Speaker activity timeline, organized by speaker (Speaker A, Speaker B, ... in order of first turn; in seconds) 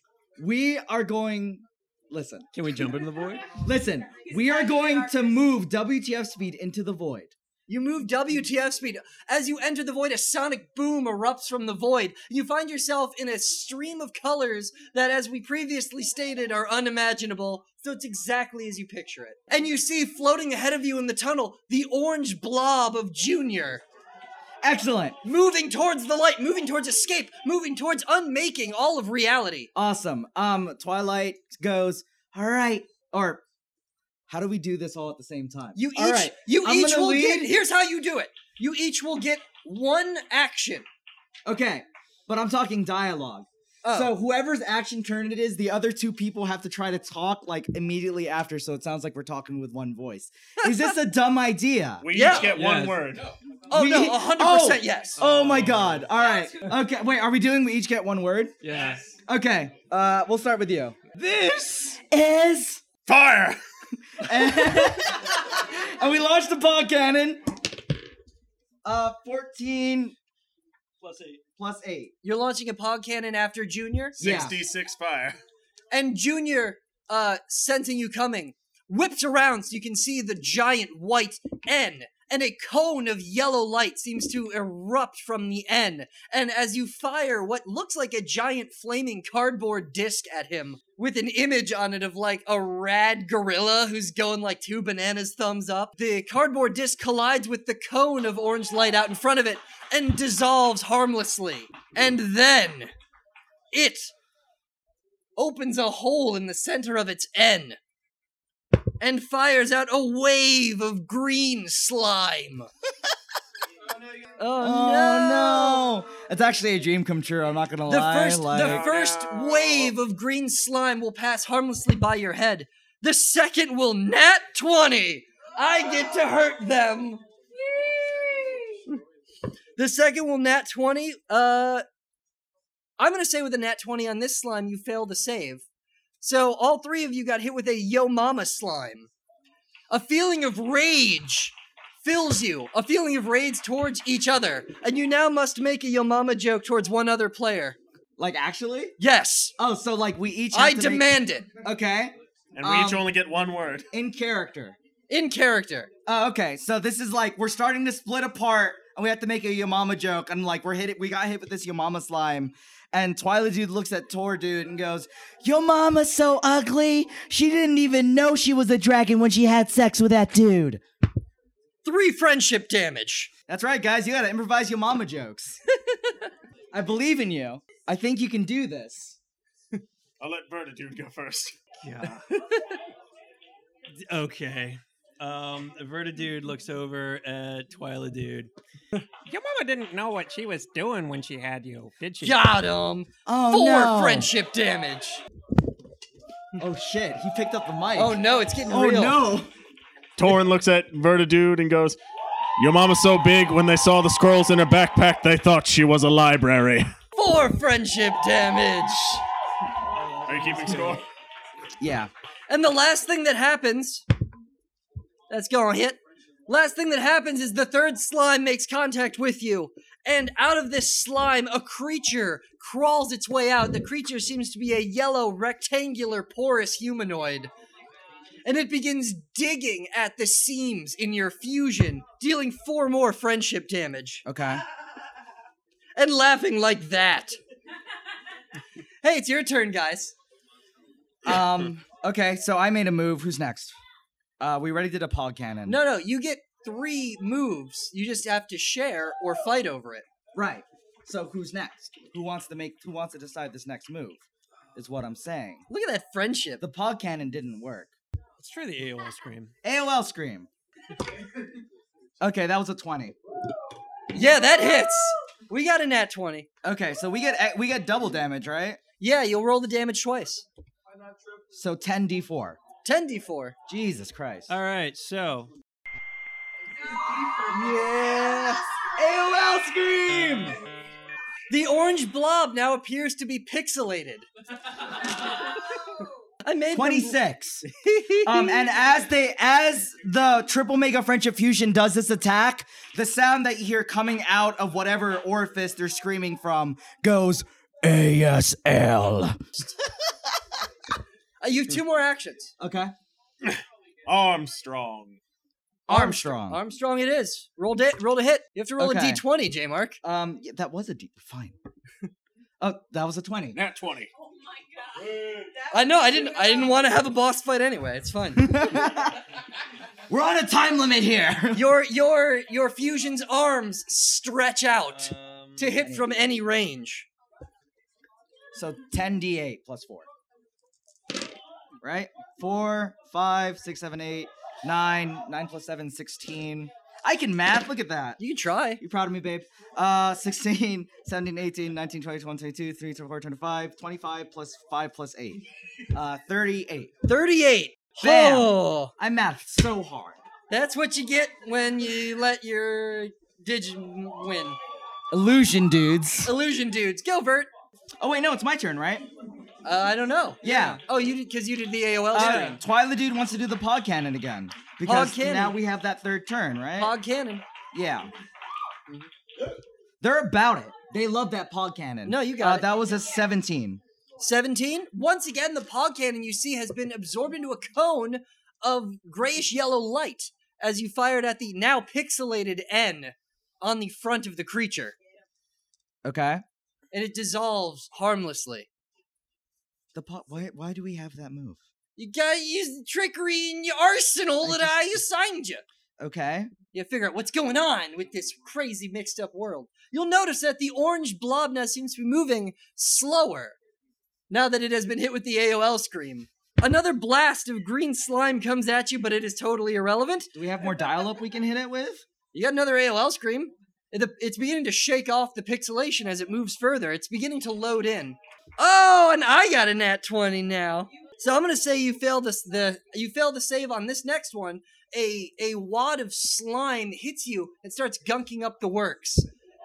Speaker A: 0.4-2.5, 3.6-7.3, 24.6-25.2, 29.7-33.4, 34.3-37.5, 41.5-52.0, 53.7-58.5, 59.2-61.0, 61.9-62.8, 64.2-67.5, 68.8-70.2, 71.6-72.1, 74.2-74.6, 114.6-118.8, 148.2-148.9, 149.6-153.1, 153.9-154.8, 156.1-170.8, 173.5-175.6, 176.7-179.2, 193.2-194.3, 196.6-199.5, 211.8-212.1, 234.2-234.6, 241.2-243.8, 244.4-245.8, 250.3-254.2, 254.7-255.6, 256.6-257.9, 259.6-260.5, 262.2-263.1, 266.6-268.8, 271.5-272.6, 273.7-274.5, 277.5-280.6, 286.7-287.6, 288.2-299.4, 302.6-302.9, 305.9-306.6, 308.8-309.2, 310.0-311.6, 312.6-313.6, 318.3-319.2, 320.1-321.7, 325.8-326.1, 328.5-330.1, 331.8-338.2, 338.8-346.9, 348.0-350.2, 355.1-356.3, 358.0-359.1, 360.4-360.8, 362.1-366.9, 367.7-368.1, 370.0-373.8, 386.0-386.4, 389.9-391.6, 394.4-395.0, 396.0-396.5, 410.3-412.0
Speaker B: 2.5-3.5, 52.4-53.1, 55.2-56.1, 58.6-59.1, 61.1-61.9, 71.0-71.4, 181.8-182.2, 183.9-188.5, 189.2-192.4, 209.9-211.0, 258.4-259.5, 274.5-275.5, 324.9-325.8, 362.1-362.5
Speaker C: 4.2-5.3, 276.8-277.7, 285.7-286.1, 314.1-317.0
Speaker D: 7.7-23.8, 25.2-29.7, 35.8-40.8, 43.8-44.1, 50.6-50.9, 52.1-52.6, 53.7-55.2, 72.2-74.2, 75.9-102.9, 103.7-104.1, 105.4-107.8, 109.0-112.7, 114.4-115.9, 117.9-128.9, 129.8-131.8, 133.0-135.6, 136.2-139.1, 139.9-147.8, 149.0-149.5, 150.5-151.5, 155.1-155.9, 171.8-173.3, 175.7-176.3, 182.4-182.8, 192.2-195.2, 197.9-199.2, 207.2-209.2, 212.5-214.0, 215.3-227.5, 228.4-234.2, 235.9-237.4, 239.0-240.1, 245.7-250.0, 255.7-256.6, 264.1-266.5, 269.0-270.4, 272.8-273.6, 277.9-278.3, 281.5-284.2, 286.4-288.7, 301.4-302.5, 305.9-310.0, 315.7-318.6, 321.5-327.1, 338.2-338.8, 347.1-348.9, 350.5-354.6, 356.2-357.5, 359.6-362.6, 364.8-365.6, 366.8-367.4, 372.1-372.7, 374.2-384.9, 386.9-388.7, 392.0-395.6, 396.7-403.6, 404.3-410.3, 412.3-429.3
Speaker E: 52.0-53.3, 63.0-63.6, 74.2-75.4, 118.6-119.8, 152.5-153.9, 180.2-181.6, 200.2-202.0, 202.6-206.9, 210.3-211.0, 303.4-305.2, 313.5-314.1, 315.1-315.5